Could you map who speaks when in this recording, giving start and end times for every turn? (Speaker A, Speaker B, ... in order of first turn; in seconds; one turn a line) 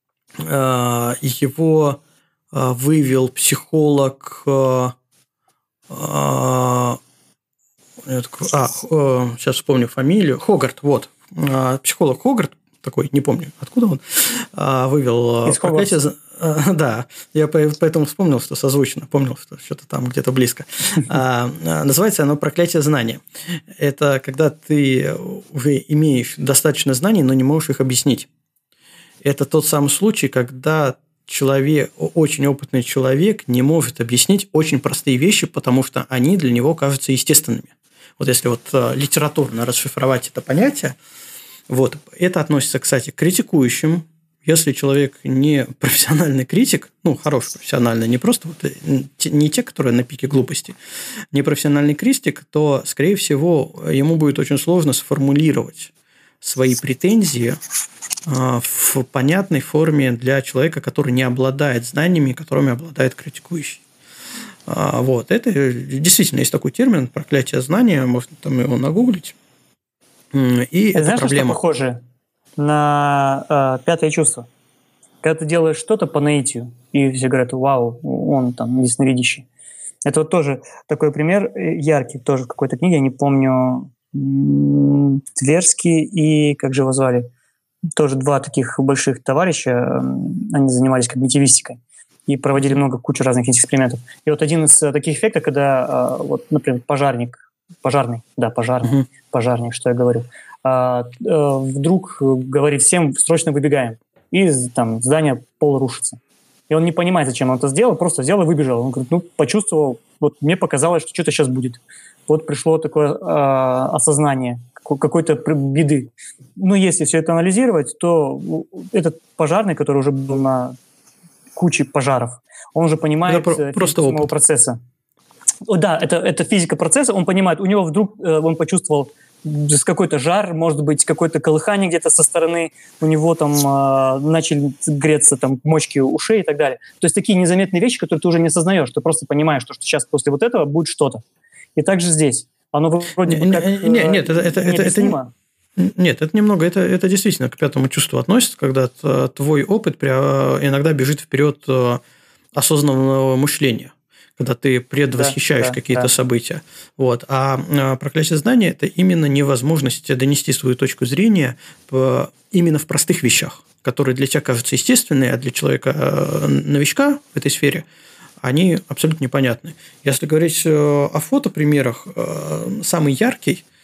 Speaker A: 0.4-2.0
Speaker A: 2.5-4.9
Speaker A: 5.9-7.0
Speaker A: 8.0-28.3
Speaker B: 15.4-15.9
Speaker A: 29.2-41.0
Speaker A: 41.7-50.8
Speaker A: 51.3-57.6
Speaker A: 58.3-63.8
Speaker A: 64.7-69.3
Speaker A: 70.3-71.6
Speaker B: 70.9-72.0
Speaker B: 72.6-74.5
Speaker B: 75.2-79.5
Speaker B: 80.0-87.3
Speaker B: 88.0-120.8
Speaker B: 121.5-124.8
Speaker A: 123.3-124.3
Speaker B: 125.7-141.2
Speaker B: 141.8-145.3
Speaker A: 143.2-145.2
Speaker A: 145.8-152.0
Speaker A: 152.5-167.8
Speaker B: 155.1-156.1
Speaker A: 168.4-173.6